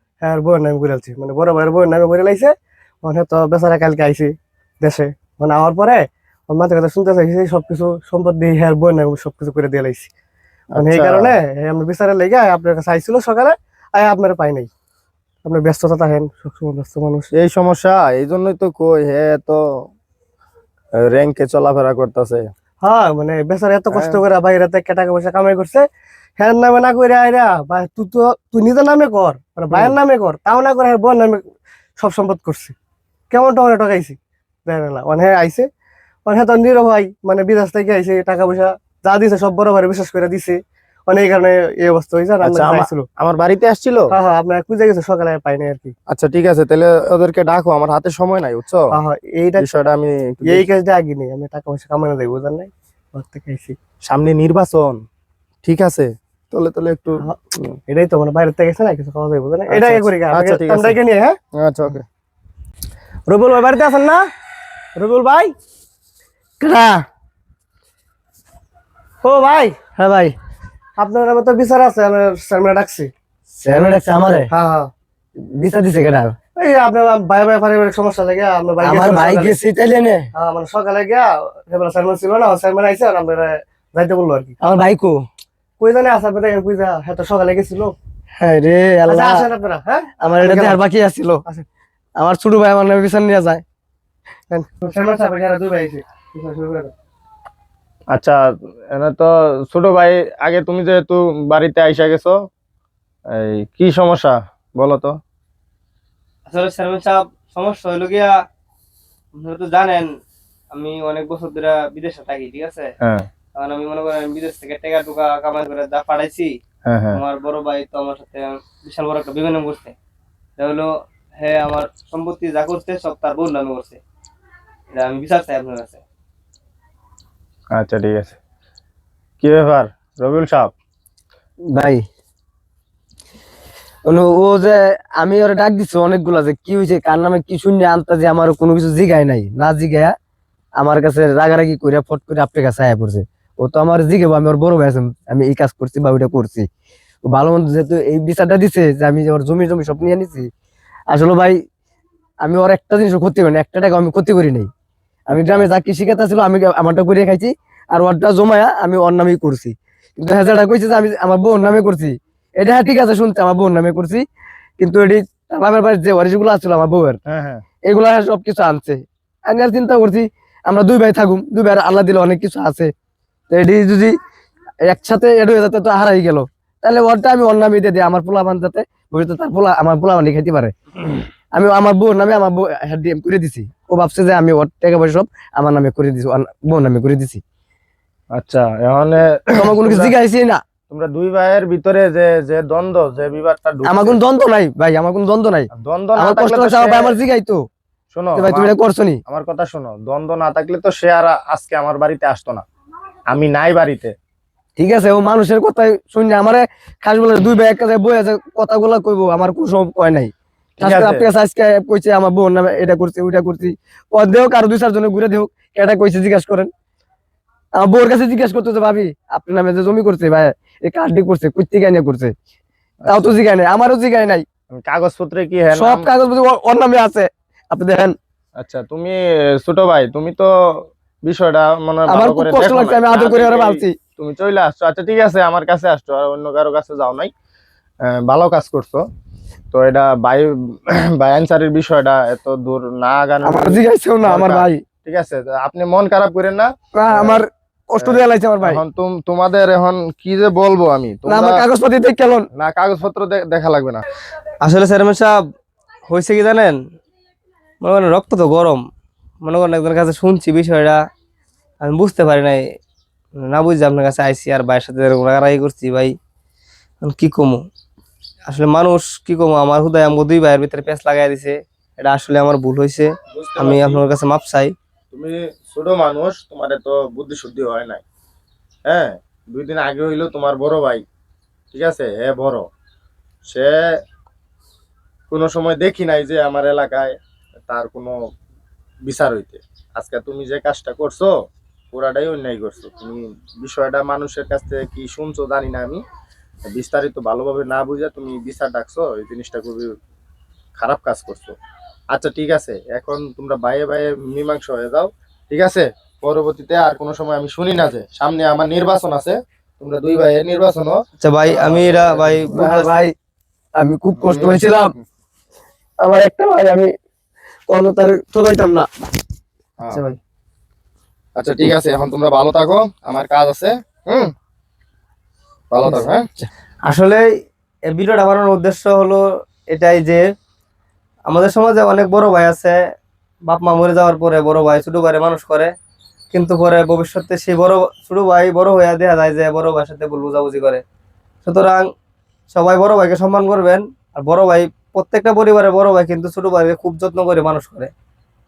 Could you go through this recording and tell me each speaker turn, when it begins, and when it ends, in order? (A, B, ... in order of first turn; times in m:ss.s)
0:00.2-0:10.1 A
0:10.7-0:11.3 B
0:10.8-0:14.7 A
0:15.4-0:17.3 A
0:17.3-0:19.6 B
0:21.0-0:22.5 B
0:22.8-0:25.8 A
0:23.9-0:24.2 B
0:26.4-0:31.4 A
0:32.0-0:32.7 A
0:33.3-0:35.7 A
0:36.2-0:43.1 A
0:42.4-0:44.1 B
0:44.1-0:45.9 A
0:46.1-0:48.9 B
0:48.9-0:49.7 A
0:49.6-0:50.6 B
0:50.5-0:53.8 A
0:54.0-0:55.0 B
0:55.6-0:57.2 B
0:57.3-1:01.4 A
0:59.7-1:01.0 B
1:01.5-1:02.0 B
1:03.3-1:04.2 A
1:05.0-1:05.5 A
1:06.6-1:07.0 C
1:09.2-1:09.8 A
1:10.0-1:10.4 C
1:11.0-1:13.1 A
1:13.6-1:14.5 C
1:14.5-1:14.9 A
1:15.4-1:16.4 C
1:16.6-1:19.6 A
1:18.8-1:20.3 C
1:20.3-1:24.6 A
1:24.6-1:25.2 C
1:25.8-1:27.9 A
1:28.4-1:29.5 C
1:29.1-1:30.8 A
1:30.2-1:31.4 C
1:32.2-1:33.6 C
1:34.5-1:36.9 A
1:38.1-1:38.4 B
1:38.9-1:42.4 B
1:43.3-1:45.2 B
1:46.4-1:48.3 D
1:49.3-1:50.1 D
1:50.7-1:52.9 D
1:53.0-1:53.3 B
1:53.6-1:56.5 D
1:56.8-1:57.2 B
1:57.1-1:59.9 D
2:00.6-2:04.0 D
2:04.9-2:06.0 D
2:07.7-2:08.4 B
2:09.4-2:10.7 B
2:11.7-2:12.0 C
2:14.0-2:20.1 C
2:20.8-2:26.7 C
2:27.2-2:30.5 C
2:31.1-2:31.6 C
2:32.4-2:34.7 C
2:35.3-2:44.2 C
2:44.8-2:47.2 C
2:47.2-2:47.6 B
2:47.8-2:52.9 C
2:53.5-2:54.1 C
2:54.8-3:00.7 C
3:01.5-3:07.4 C
3:08.3-3:10.2 B
3:09.5-3:10.6 C
3:10.9-3:14.2 B
3:13.8-3:17.6 C
3:15.7-3:17.2 B
3:18.1-3:22.6 B
3:18.4-3:19.2 C
3:23.3-3:24.1 B
3:24.8-3:36.7 C
3:30.8-3:31.3 B
3:37.8-3:42.3 C
3:43.0-3:43.4 B
3:43.1-3:44.4 C
3:44.7-3:46.1 B
3:45.7-3:48.2 C
3:48.6-3:57.3 B
3:52.1-3:53.9 C
3:58.0-3:59.0 B
3:59.7-4:07.4 B
4:03.4-4:04.8 C
4:07.0-4:08.8 C
4:08.0-4:11.6 B
4:11.2-4:12.5 C
4:12.5-4:14.0 B
4:14.6-4:15.4 D
4:16.1-4:16.8 D
4:17.8-4:18.8 D
4:19.4-4:21.0 D
4:21.8-4:22.6 D
4:23.4-4:26.1 D
4:27.0-4:27.6 D
4:28.5-4:34.7 D
4:33.3-4:34.0 B
4:35.1-4:38.0 B
4:38.8-4:41.0 B
4:41.7-4:42.7 B
4:43.4-4:43.8 B
4:45.3-4:47.2 B
4:47.7-4:48.1 B
4:49.0-4:51.3 B
4:51.9-4:56.0 B
4:56.7-4:59.9 B
5:00.8-5:01.5 B
5:02.1-5:11.0 B
5:11.2-5:12.9 D
5:11.5-5:12.5 B
5:12.5-5:13.1 C
5:13.8-5:14.9 C
5:14.2-5:14.6 B
5:16.0-5:16.9 C
5:17.7-5:18.9 C
5:19.8-5:20.0 B
5:21.4-5:24.3 B
5:25.7-5:26.2 B
5:26.8-5:27.3 D
5:27.9-5:30.2 D
5:31.3-5:32.8 D
5:33.4-5:35.7 D
5:36.3-5:40.8 D
5:41.4-5:41.9 D
5:42.5-5:47.9 D